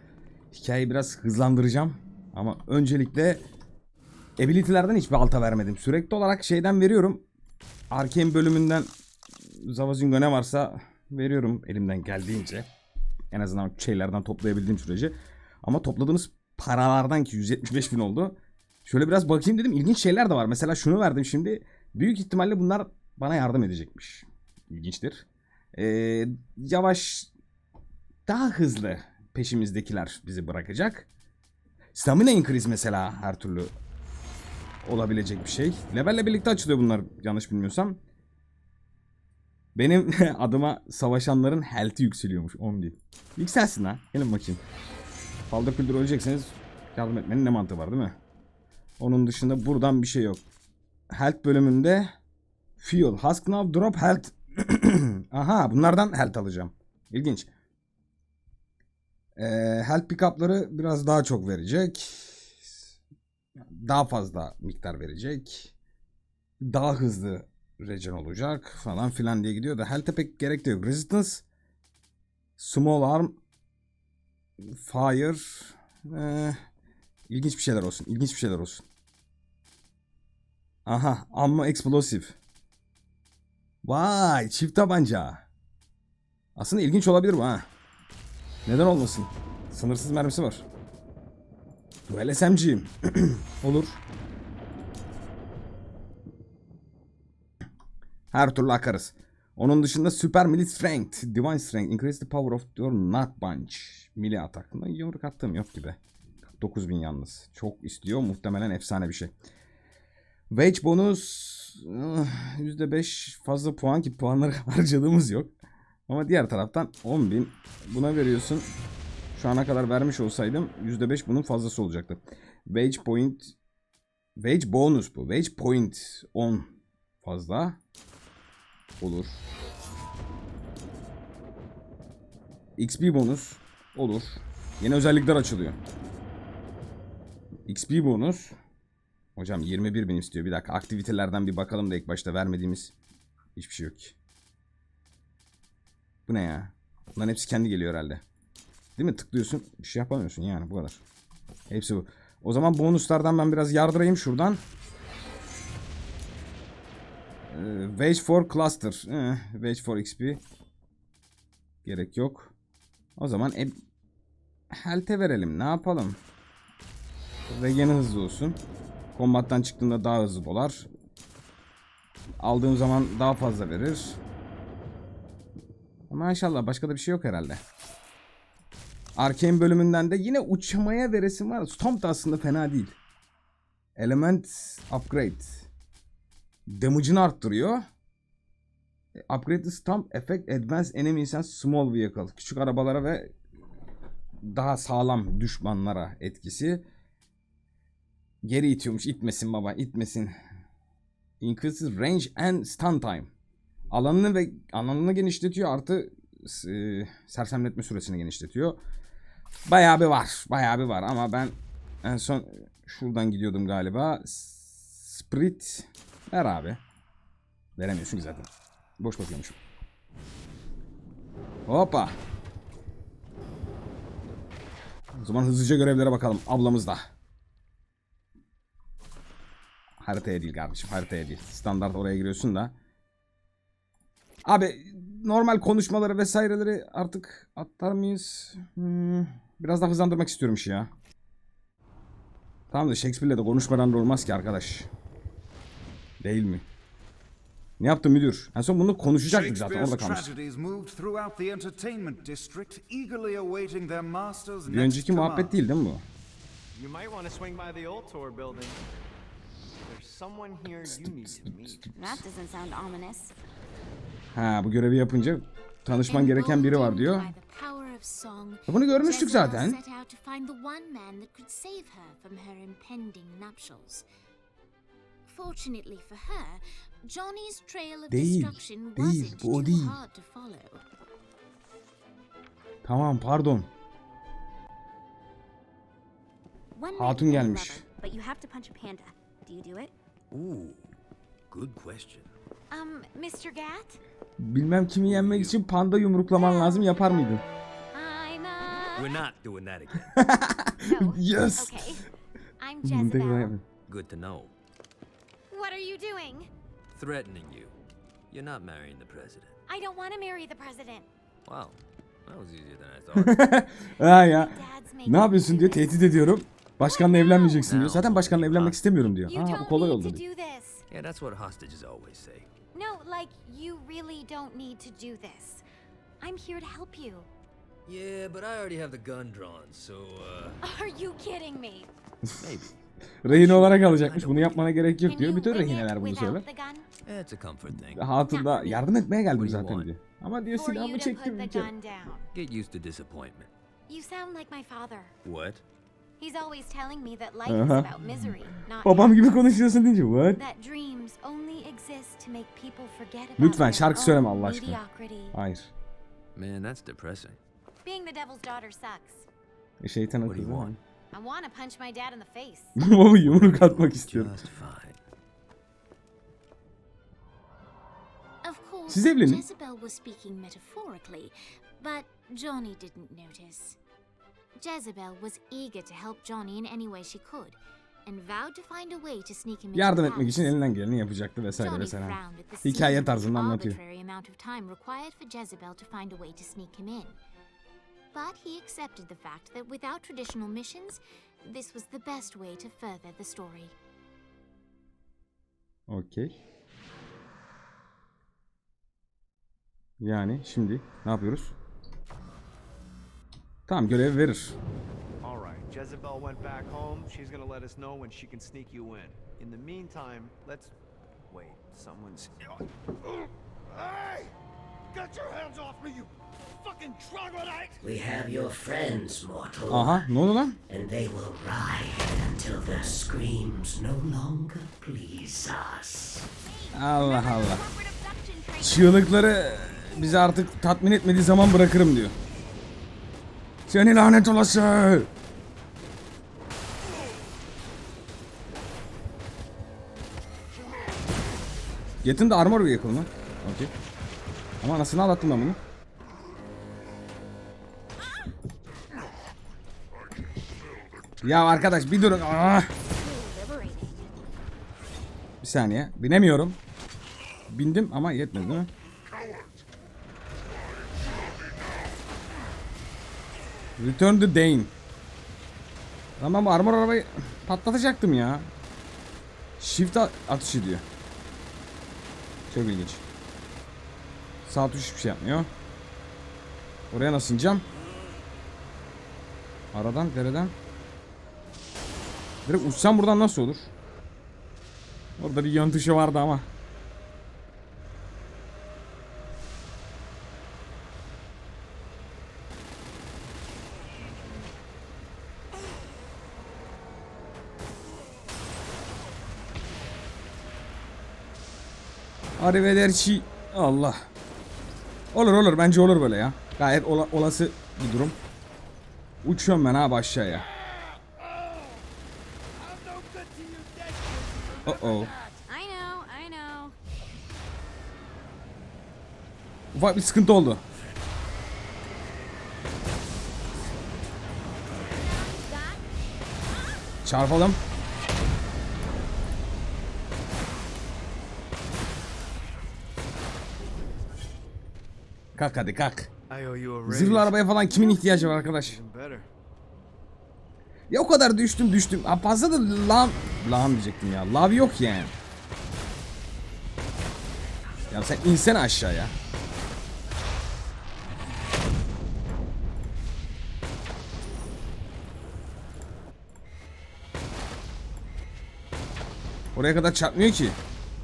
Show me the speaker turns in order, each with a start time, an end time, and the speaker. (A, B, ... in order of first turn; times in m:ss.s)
0:00.5-0:03.5 A
0:04.4-0:07.2 A
0:07.9-0:08.9 A
0:09.6-0:12.7 A
0:13.3-0:27.3 A
0:28.3-0:31.1 A
0:31.9-0:33.7 A
0:34.8-0:38.0 A
0:39.8-0:44.6 A
0:45.5-0:48.2 A
0:49.0-0:50.4 A
0:51.1-0:52.2 A
0:52.8-0:57.5 A
0:59.4-1:03.0 A
1:03.6-1:05.7 A
1:06.6-1:11.4 A
1:12.6-1:13.4 A
1:14.6-1:16.6 A
1:17.3-1:18.8 A
1:20.9-1:22.4 A
1:23.8-1:25.4 A
1:26.6-1:27.7 A
1:28.7-1:30.6 A
1:32.1-1:34.0 A
1:38.3-1:46.0 A
1:46.6-1:49.3 A
1:50.5-1:55.5 A
1:56.1-1:58.7 A
1:59.4-2:03.6 A
2:04.4-2:07.8 A
2:09.0-2:09.4 A
2:12.8-2:15.8 A
2:17.7-2:18.6 A
2:19.4-2:22.9 A
2:23.6-2:24.2 A
2:26.3-2:28.2 A
2:29.0-2:31.0 A
2:31.7-2:34.6 A
2:37.5-2:40.4 A
2:41.8-2:42.5 A
2:43.2-2:43.8 A
2:44.7-2:46.2 A
2:47.5-2:48.6 A
2:49.1-2:50.9 A
2:52.4-2:54.2 A
2:56.1-2:57.6 A
2:59.2-3:03.0 A
3:04.0-3:05.7 A
3:06.7-3:07.8 A
3:09.2-3:13.3 A
3:14.4-3:16.8 A
3:18.4-3:20.4 A
3:21.4-3:23.3 A
3:23.9-3:28.8 A
3:29.7-3:36.8 A
3:37.8-3:39.6 A
3:41.7-3:42.2 A
3:45.1-3:47.1 A
3:50.0-3:52.7 A
3:54.4-4:00.9 A
4:02.7-4:04.9 A
4:06.2-4:06.7 A
4:07.8-4:10.3 A
4:09.3-4:15.6 B
4:14.6-4:16.0 A
4:16.7-4:18.8 C
4:19.8-4:21.9 C
4:21.9-4:23.3 D
4:24.4-4:27.3 A
4:26.1-4:34.1 E
4:28.7-4:29.8 A
4:35.3-4:40.8 E
4:38.1-4:40.0 A
4:42.8-4:43.7 A
4:46.8-4:49.9 D
4:46.9-4:47.8 A
4:50.3-4:50.9 F
4:51.5-4:52.3 F
4:52.7-4:54.0 E
4:54.4-4:57.4 A
4:55.0-4:55.6 F
4:56.3-4:56.9 E
4:57.9-4:59.2 E
4:59.0-5:00.2 F
5:00.2-5:01.9 A
5:00.8-5:02.0 E
5:02.6-5:03.5 E
5:02.8-5:03.6 A
5:03.9-5:04.5 F
5:05.5-5:06.5 E
5:06.9-5:07.8 F
5:08.3-5:09.5 F
5:09.7-5:11.1 E
5:11.5-5:13.4 F
5:13.1-5:20.2 A
5:14.0-5:17.7 E
5:17.6-5:18.8 F
5:19.3-5:20.8 E
5:20.9-5:22.5 F
5:22.7-5:25.6 E
5:26.2-5:27.3 E
5:27.9-5:30.6 F
5:30.6-5:31.9 E
5:32.4-5:34.7 F
5:33.2-5:36.5 A
5:35.0-5:36.9 E
5:37.0-5:38.1 F
5:37.9-5:41.7 A
5:38.3-5:38.9 E
5:39.4-5:39.9 F
5:40.5-5:42.3 E
5:42.3-5:43.5 F
5:43.9-5:45.2 E
5:45.2-5:45.6 F
5:46.2-5:49.5 E
5:47.5-5:47.9 A
5:48.8-5:50.4 A
5:50.4-5:55.4 E
5:53.4-5:54.8 A
5:55.3-5:55.7 A
5:56.4-5:57.4 F
5:57.8-5:59.3 E
5:59.8-6:00.8 A
6:00.2-6:00.8 F
6:01.1-6:02.8 E
6:02.8-6:04.4 A
6:03.2-6:05.0 F
6:08.4-6:13.8 E
6:08.9-6:09.4 A
6:14.6-6:20.6 E
6:19.7-6:23.8 A
6:21.6-6:27.2 E
6:28.1-6:33.8 E
6:35.9-6:36.4 A
6:40.0-6:41.6 A
6:43.7-6:44.6 A
6:45.2-6:50.8 C
6:51.3-6:52.3 C
6:53.7-6:54.3 B
6:54.9-6:57.8 B
6:57.8-7:00.1 G
6:59.7-7:00.6 A
7:00.7-7:06.3 G
7:06.4-7:09.1 E
7:06.7-7:07.6 A
7:08.6-7:12.2 A
7:13.7-7:15.1 A
7:22.0-7:23.7 A
7:24.6-7:25.6 A
7:31.2-7:32.7 A
7:32.8-7:34.1 D
7:35.4-7:36.6 A
7:37.5-7:38.7 A
7:43.8-7:44.7 A
7:46.2-7:48.5 A
7:49.6-7:50.8 A
7:52.5-7:53.0 A
7:54.4-7:55.5 A
7:56.9-7:57.6 A
7:59.7-8:00.6 A
8:02.4-8:03.7 A
8:05.2-8:06.5 A
8:22.4-8:24.1 A
8:25.1-8:28.2 A
8:29.2-8:30.4 A
8:32.6-8:35.4 B
8:34.6-8:35.1 A
8:35.5-8:36.7 D
8:36.2-8:36.7 E
8:39.7-8:40.6 A
8:45.0-8:45.8 D
8:47.0-8:47.6 A
8:55.4-8:56.1 A
8:56.3-8:59.3 C
8:56.8-8:58.8 A
9:00.9-9:05.2 A
9:07.9-9:09.2 A
9:19.6-9:20.6 A